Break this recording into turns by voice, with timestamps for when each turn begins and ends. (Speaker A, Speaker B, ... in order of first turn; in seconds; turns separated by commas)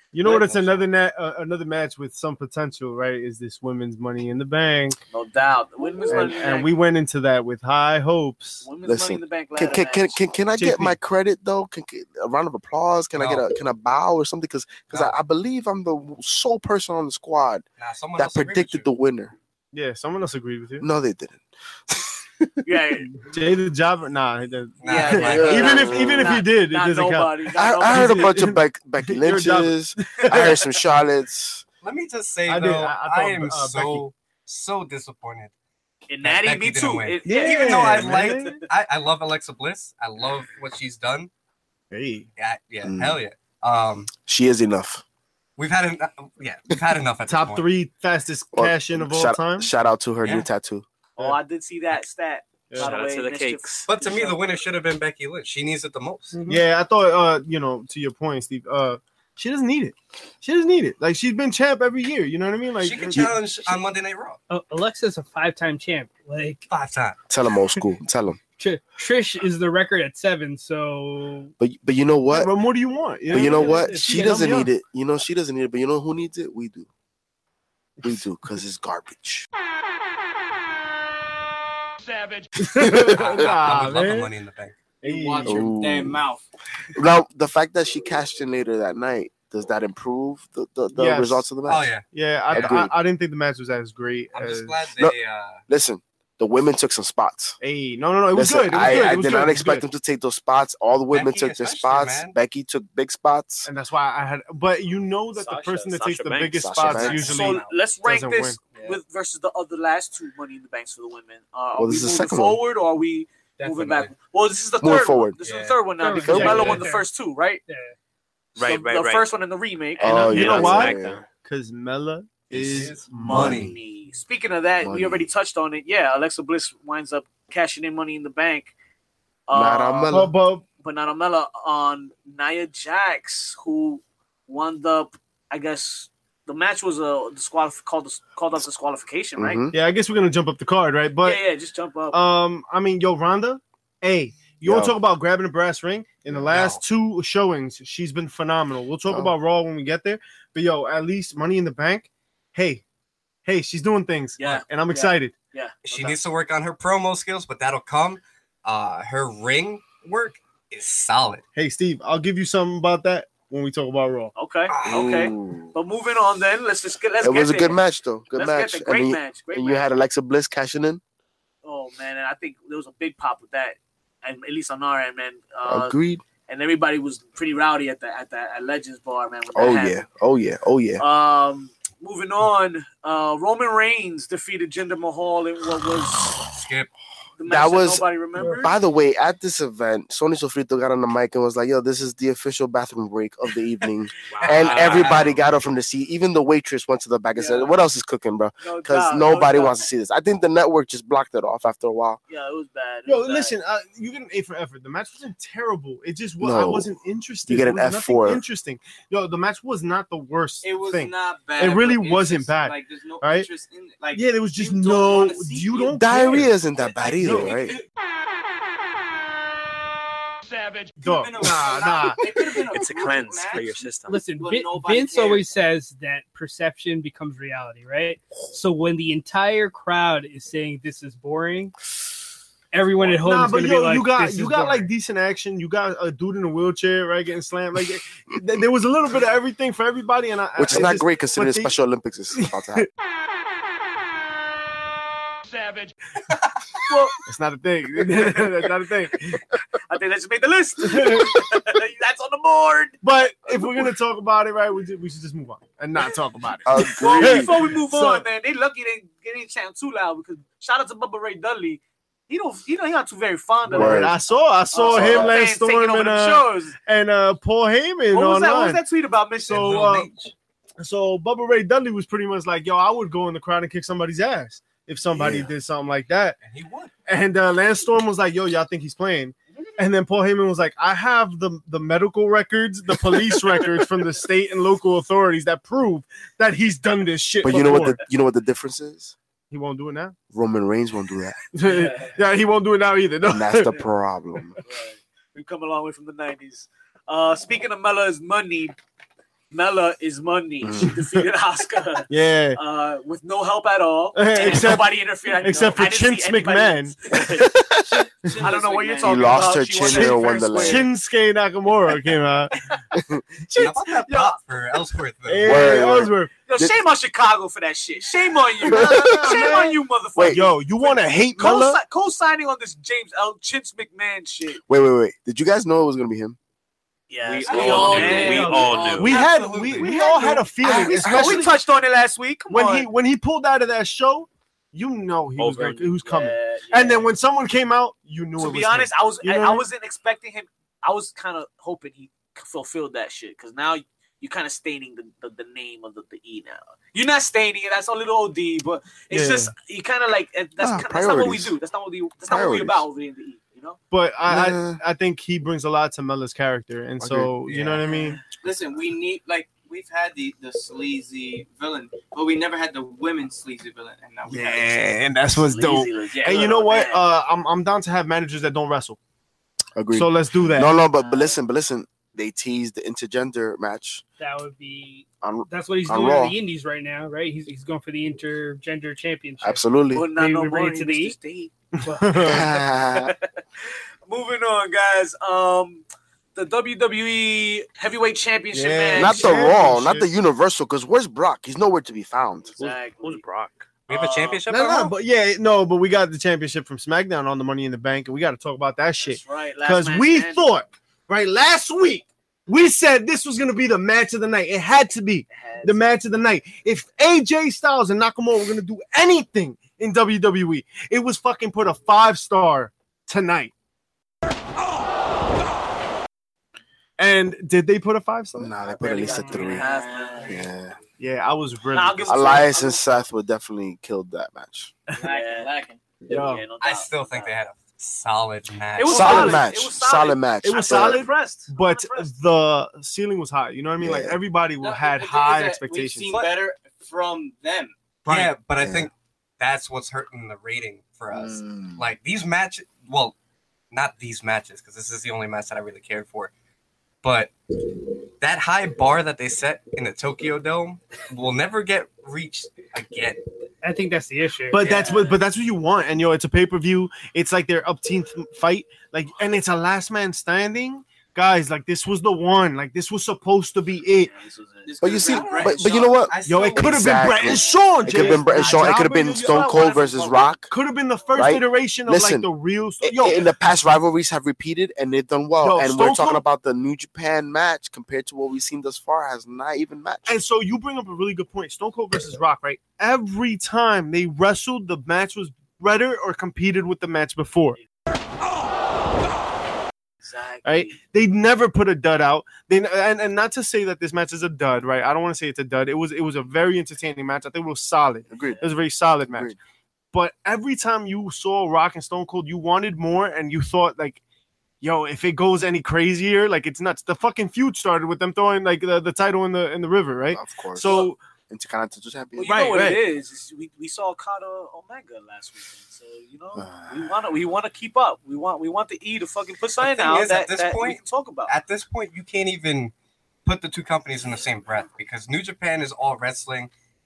Speaker A: 0.1-5.0, Speaker B: 0.2-0.8, Speaker C: 5.1-6.7, Speaker A: 6.1-8.7, Speaker C: 8.6-10.2, Speaker D: 8.8-17.6, Speaker A: 10.6-11.0, Speaker B: 13.1-13.4, Speaker B: 17.8-18.9, Speaker D: 18.2-19.3, Speaker A: 19.7-20.9, Speaker D: 20.8-22.2, Speaker C: 22.6-23.1, Speaker A: 23.2-30.7, Speaker B: 24.8-25.9, Speaker C: 24.9-28.3, Speaker D: 25.2-26.4, Speaker D: 27.6-31.6, Speaker B: 31.8-35.5, Speaker A: 32.5-34.0, Speaker C: 36.1-38.4, Speaker B: 36.2-41.3, Speaker A: 37.2-38.6, Speaker A: 41.9-42.3, Speaker B: 42.4-44.1, Speaker D: 42.8-43.2, Speaker D: 44.2-45.0, Speaker B: 45.6-47.6, Speaker A: 47.3-49.7, Speaker D: 48.5-50.8, Speaker C: 51.2-54.4, Speaker E: 52.8-53.9, Speaker B: 53.9-56.4, Speaker A: 56.4-63.4, Speaker B: 62.8-64.4, Speaker F: 64.5-66.7, Speaker B: 66.7-67.2, Speaker D: 67.3-68.4, Speaker F: 68.6-71.5, Speaker D: 71.6-72.5, Speaker A: 72.3-74.7, Speaker F: 73.3-74.2, Speaker D: 73.3-76.9, Speaker D: 78.0-79.5, Speaker G: 82.2-82.5, Speaker A: 82.5-84.3, Speaker D: 82.7-83.5, Speaker B: 82.9-84.8, Speaker G: 85.0-86.4, Speaker A: 85.0-85.7, Speaker D: 85.4-86.2, Speaker D: 86.9-91.9, Speaker A: 90.9-91.5, Speaker B: 91.7-92.9, Speaker A: 92.1-94.8, Speaker D: 92.5-92.9, Speaker B: 94.3-95.6, Speaker D: 95.7-97.6, Speaker A: 97.6-99.8, Speaker D: 98.3-103.7, Speaker B: 101.1-102.3, Speaker A: 103.6-108.6, Speaker E: 105.3-107.3, Speaker D: 106.5-107.4, Speaker B: 106.9-107.7, Speaker C: 107.2-117.6, Speaker D: 111.8-112.6, Speaker B: 113.6-114.1, Speaker D: 114.8-115.4, Speaker B: 115.4-115.8, Speaker F: 116.0-117.0, Speaker D: 116.2-116.8, Speaker F: 117.7-117.9, Speaker E: 118.5-119.3, Speaker C: 118.6-120.3, Speaker D: 120.0-121.2, Speaker E: 120.0-121.3, Speaker A: 120.0-123.6, Speaker B: 122.5-123.7, Speaker C: 123.2-128.7, Speaker D: 123.3-123.7, Speaker D: 124.8-125.3, Speaker C: 129.5-130.1, Speaker D: 129.5-130.3, Speaker A: 130.1-130.6, Speaker C: 130.8-139.6, Speaker D: 139.4-139.7, Speaker A: 139.7-141.4, Speaker C: 141.2-142.2, Speaker A: 142.1-152.8, Speaker D: 144.6-144.9, Speaker B: 146.5-146.8, Speaker D: 149.1-149.3, Speaker A: 153.4-155.3, Speaker C: 154.4-156.2, Speaker B: 155.8-161.4, Speaker A: 161.6-164.3, Speaker C: 164.3-167.8, Speaker D: 164.8-165.7, Speaker D: 167.2-171.0, Speaker C: 168.3-169.9, Speaker C: 171.6-180.0, Speaker D: 175.6-176.2, Speaker D: 179.5-181.0, Speaker C: 181.0-186.4, Speaker B: 186.4-186.9, Speaker C: 187.4-188.7, Speaker D: 187.4-188.0, Speaker F: 188.4-188.7, Speaker D: 188.6-202.2, Speaker E: 194.3-195.4, Speaker B: 194.4-195.3, Speaker C: 197.3-197.8, Speaker C: 198.6-199.8, Speaker C: 202.3-203.6, Speaker A: 203.1-213.5, Speaker D: 206.4-206.9, Speaker D: 207.5-208.4, Speaker G: 210.6-216.0, Speaker A: 214.1-216.5, Speaker D: 215.9-217.8, Speaker G: 217.0-217.8, Speaker A: 217.2-217.7, Speaker G: 220.4-225.4, Speaker A: 221.0-222.5, Speaker E: 222.7-224.2, Speaker F: 224.0-231.7, Speaker F: 232.7-234.9, Speaker A: 233.0-241.7, Speaker D: 240.6-242.9, Speaker A: 242.4-242.9, Speaker C: 246.9-247.2, Speaker A: 247.2-249.4, Speaker C: 248.0-248.5, Speaker C: 249.8-253.0, Speaker A: 250.8-251.4, Speaker A: 253.0-258.2, Speaker D: 256.6-257.7, Speaker C: 256.8-264.2, Speaker A: 263.7-268.8, Speaker D: 263.7-264.1, Speaker C: 264.7-266.8, Speaker D: 264.8-265.3, Speaker C: 268.1-269.8, Speaker A: 269.4-270.1, Speaker B: 269.5-270.3, Speaker A: 270.8-276.4, Speaker D: 275.1-275.5, Speaker B: 276.4-276.9, Speaker A: 277.1-288.0, Speaker D: 287.4-289.1, Speaker A: 289.5-290.1, Speaker D: 290.3-291.4, Speaker A: 291.5-293.8, Speaker D: 293.2-294.6, Speaker C: 294.6-298.7, Speaker C: 299.5-307.5, Speaker D: 300.6-301.0, Speaker A: 302.1-302.6, Speaker A: 304.1-307.2, Speaker D: 307.2-308.0, Speaker G: 308.2-310.1, Speaker C: 308.4-310.9, Speaker D: 309.0-310.9, Speaker A: 309.9-312.5, Speaker D: 312.9-313.2, Speaker A: 313.5-314.2, Speaker B: 313.5-315.7, Speaker A: 315.3-316.3, Speaker D: 315.4-316.7, Speaker C: 316.4-324.6, Speaker D: 318.6-319.5, Speaker A: 318.6-319.8, Speaker D: 320.1-320.4, Speaker A: 320.3-321.8, Speaker D: 324.7-326.4, Speaker C: 327.1-329.2, Speaker E: 327.2-329.2, Speaker G: 327.4-330.4, Speaker A: 328.9-331.5, Speaker B: 329.2-329.8, Speaker C: 330.2-332.9, Speaker D: 330.6-331.5, Speaker A: 332.5-339.6, Speaker E: 335.4-336.0, Speaker C: 336.0-337.1, Speaker C: 338.4-353.8, Speaker A: 349.1-349.5, Speaker D: 350.6-351.6, Speaker D: 352.2-352.8, Speaker A: 353.9-358.2, Speaker D: 354.2-354.8, Speaker D: 357.0-357.3, Speaker B: 357.4-357.8, Speaker C: 357.9-358.2, Speaker G: 358.3-364.8, Speaker A: 364.3-369.0, Speaker C: 365.4-367.0, Speaker D: 369.8-374.0, Speaker A: 369.9-370.8, Speaker F: 374.2-381.1, Speaker D: 375.2-376.4, Speaker D: 379.4-380.0, Speaker C: 379.9-381.5, Speaker A: 381.8-382.4, Speaker F: 381.8-382.2, Speaker D: 382.2-383.1, Speaker C: 382.9-383.3, Speaker C: 384.1-385.8, Speaker C: 386.3-389.4, Speaker A: 388.5-390.1, Speaker D: 388.9-392.7, Speaker C: 392.5-393.2, Speaker E: 392.9-393.7, Speaker B: 393.9-394.9, Speaker C: 393.9-394.4, Speaker A: 394.5-413.5, Speaker C: 399.0-400.5, Speaker C: 405.3-405.9, Speaker A: 417.0-418.5, Speaker D: 418.3-419.7, Speaker C: 418.6-420.4, Speaker F: 419.1-419.4, Speaker G: 419.3-420.5, Speaker D: 420.3-420.8, Speaker A: 421.0-422.5, Speaker C: 421.7-423.0, Speaker D: 422.1-424.7, Speaker G: 425.0-425.9, Speaker C: 425.0-425.5, Speaker A: 426.1-426.4, Speaker C: 426.1-427.3, Speaker B: 426.6-429.4, Speaker C: 428.8-432.1, Speaker D: 428.9-431.1, Speaker A: 430.4-436.1, Speaker D: 433.8-434.2, Speaker G: 434.6-437.7, Speaker B: 436.1-436.3, Speaker A: 438.0-438.3, Speaker B: 438.1-443.1, Speaker D: 438.6-438.9, Speaker D: 441.1-441.9, Speaker B: 443.7-446.3, Speaker B: 447.0-453.2, Speaker F: 453.6-454.8, Speaker A: 454.5-464.1, Speaker B: 454.6-455.1, Speaker C: 464.0-464.7, Speaker G: 464.6-466.0, Speaker D: 464.8-470.5, Speaker B: 465.1-467.0, Speaker A: 466.2-473.2, Speaker C: 467.2-468.8, Speaker C: 469.8-470.2, Speaker D: 471.1-472.3, Speaker D: 472.8-480.2, Speaker A: 475.4-476.2, Speaker A: 480.1-487.6, Speaker C: 490.0-490.8, Speaker A: 490.4-499.3, Speaker D: 498.1-498.4, Speaker D: 499.1-499.4, Speaker A: 499.9-504.0, Speaker A: 504.6-511.0, Speaker D: 510.1-512.7, Speaker C: 512.2-521.3, Speaker A: 512.2-512.8, Speaker D: 516.3-517.0, Speaker B: 519.6-522.7, Speaker B: 523.2-526.5